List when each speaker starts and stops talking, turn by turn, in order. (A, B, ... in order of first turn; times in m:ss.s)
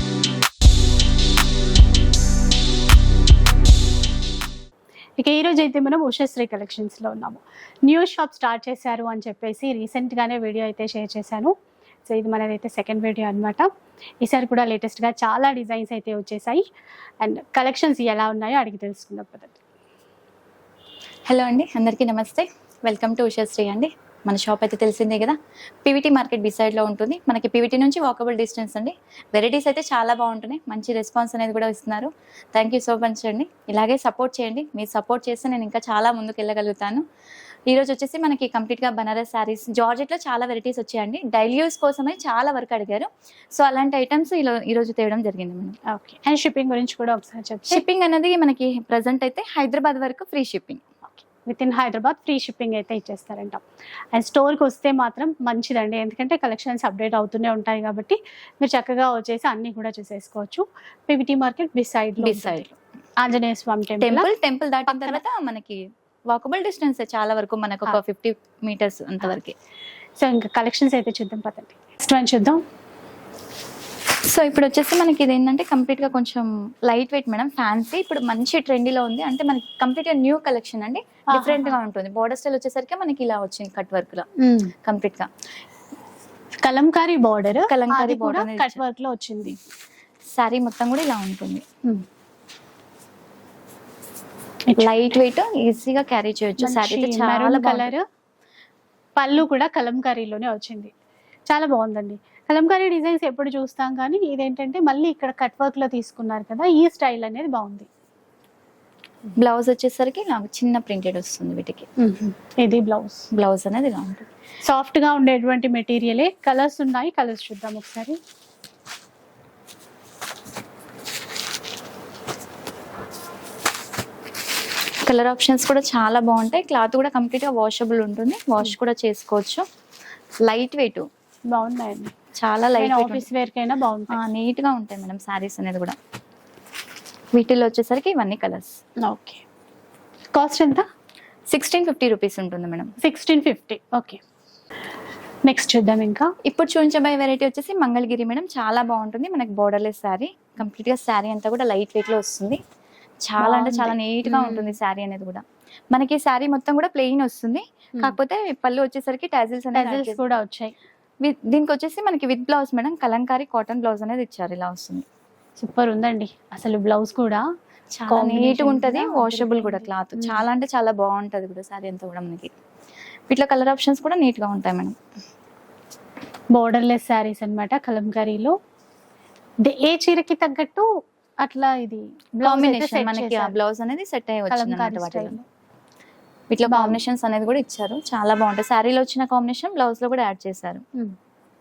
0:05.2-0:11.5 A
0:12.0-0:13.7 A
0:14.2-0:16.6 A
0:17.2-0:19.6 A
0:21.3-0:37.0 B
0:37.7-0:45.8 B
0:45.9-0:47.8 A
0:47.7-0:50.8 B
0:51.2-0:53.6 A
0:54.1-1:02.6 A
1:02.2-1:02.8 B
1:03.2-1:04.3 A
1:04.0-1:09.5 B
1:04.9-1:05.2 A
1:10.2-1:12.6 A
1:14.3-1:24.3 B
1:21.3-1:21.8 A
1:24.4-1:24.7 A
1:24.8-1:25.3 B
1:26.6-1:29.6 A
1:27.7-1:28.8 B
1:30.3-1:31.6 B
1:34.8-1:37.9 B
1:36.6-1:38.0 A
1:39.2-1:40.9 A
1:41.5-1:47.9 A
1:49.4-1:51.9 B
1:52.0-1:53.3 A
1:53.3-1:54.3 B
1:54.6-1:58.2 A
2:05.0-2:09.6 B
2:10.4-2:11.1 B
2:11.5-2:12.1 A
2:12.3-2:13.2 B
2:12.8-2:14.2 A
2:14.1-2:16.0 B
2:17.3-2:18.7 B
2:19.0-2:19.4 A
2:20.3-2:20.8 A
2:21.5-2:22.9 B
2:23.0-2:24.2 A
2:25.5-2:26.3 A
2:26.4-2:32.6 B
2:33.2-2:40.4 B
2:33.4-2:34.8 A
2:39.7-2:40.7 A
2:41.2-2:45.0 B
2:45.6-2:47.4 A
2:47.9-2:52.5 B
2:48.1-2:50.4 A
2:53.3-2:54.9 B
2:56.5-2:58.5 A
2:59.6-3:00.9 A
3:01.4-3:03.6 A
3:02.4-3:05.4 B
3:04.5-3:05.4 A
3:06.5-3:10.8 B
3:06.6-3:07.0 A